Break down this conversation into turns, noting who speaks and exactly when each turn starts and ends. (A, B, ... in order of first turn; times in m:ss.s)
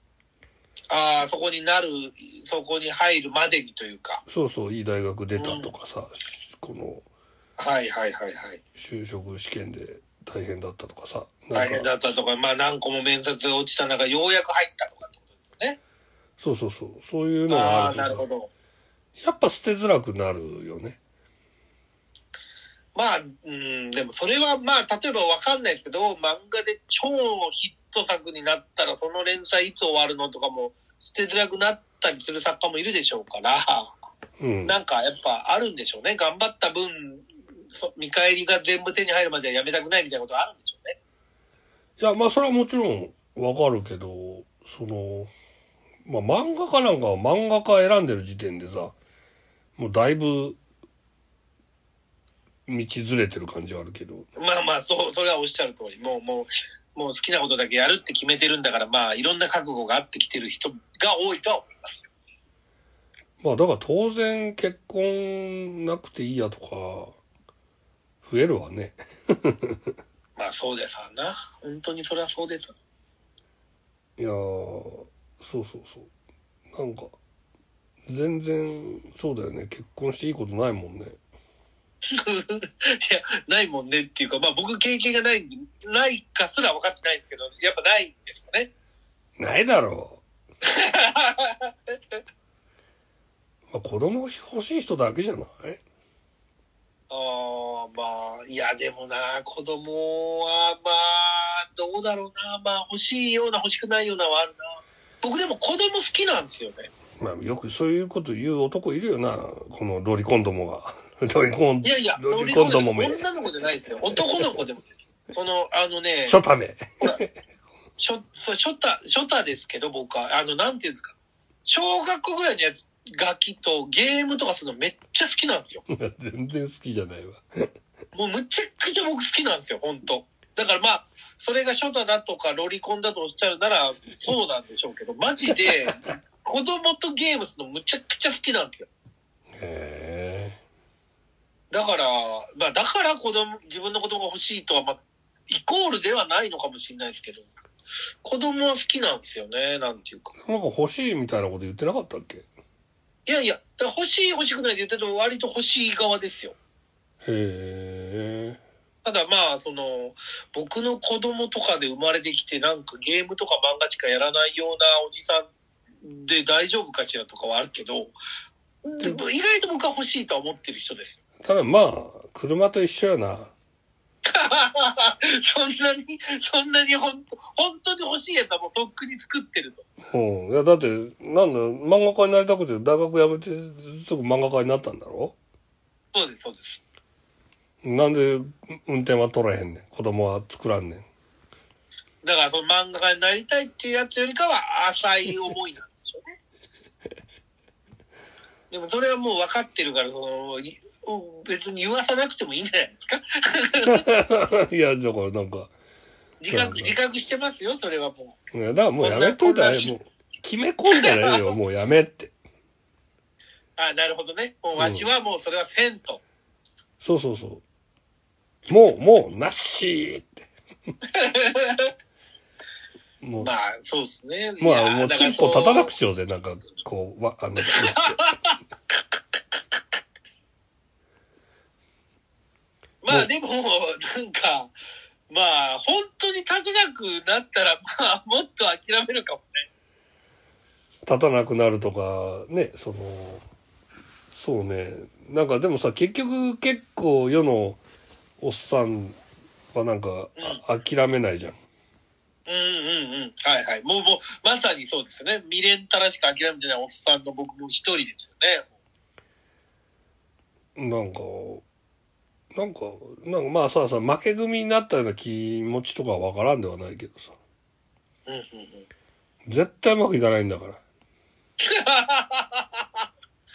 0:00.9-0:04.2 A
0:04.3-0:07.0 B
0:05.4-0:05.7 A
0:07.6-0:08.6 A
0:08.8-0:11.9 B
0:11.5-0:15.8 A
0:16.4-0:18.2 B
0:17.5-0:18.5 A
0:19.2-0:21.0 B
0:22.9-0:34.0 A
0:34.4-0:34.8 B
0:34.6-0:41.0 A
0:42.0-0:45.3 B
0:46.0-0:48.9 B
0:49.8-0:50.6 B
0:52.7-0:54.3 B
0:54.4-1:02.1 A
1:03.4-1:07.2 B
1:08.2-1:09.9 B
1:10.4-1:12.7 A
1:14.2-1:16.1 B
1:16.7-1:17.1 B
1:18.1-1:21.2 B
1:22.1-1:28.7 A
1:29.4-1:30.2 B
1:30.6-1:32.2 A
1:33.7-1:35.8 B
1:37.1-1:46.9 A
1:47.2-1:53.2 B
1:51.8-1:56.4 A
1:54.0-1:54.6 B
1:56.2-1:57.3 B
1:58.0-2:01.1 A
2:01.6-2:05.8 A
2:05.9-2:07.5 B
2:08.1-2:18.9 A
2:19.5-2:20.6 B
2:21.7-2:27.5 A
2:28.2-2:30.3 A
2:30.4-2:32.5 B
2:33.3-2:36.6 A
2:37.2-2:38.6 B
2:39.0-2:45.5 A
2:46.0-2:48.1 A
2:48.8-2:51.2 A
2:51.4-2:53.5 B
2:54.2-2:59.9 A
3:00.1-3:05.4 B
3:06.1-3:06.8 A
3:07.8-3:11.1 B
3:12.2-3:16.4 A
3:18.7-3:24.0 A
3:23.8-3:25.7 B
3:26.4-3:28.4 A
3:26.5-3:26.9 B
3:28.5-3:32.3 B
3:29.0-3:29.9 A
3:31.0-3:31.4 A
3:33.8-3:36.2 A
3:34.8-3:35.1 B
3:37.0-3:37.6 B
3:38.7-3:40.4 B
3:41.1-3:41.9 A
3:43.2-3:43.5 B
3:43.4-3:45.9 A
3:44.6-3:48.2 B
3:47.6-3:48.6 A
3:53.0-3:54.7 A
3:55.3-3:59.7 A
4:01.1-4:03.4 B
4:04.3-4:07.8 B
4:08.4-4:09.2 B
4:09.7-4:11.6 B
4:12.5-4:18.7 A
4:20.8-4:21.6 B
4:22.5-4:27.4 B
4:28.3-4:28.9 A
4:29.4-4:30.8 B
4:31.6-4:33.0 A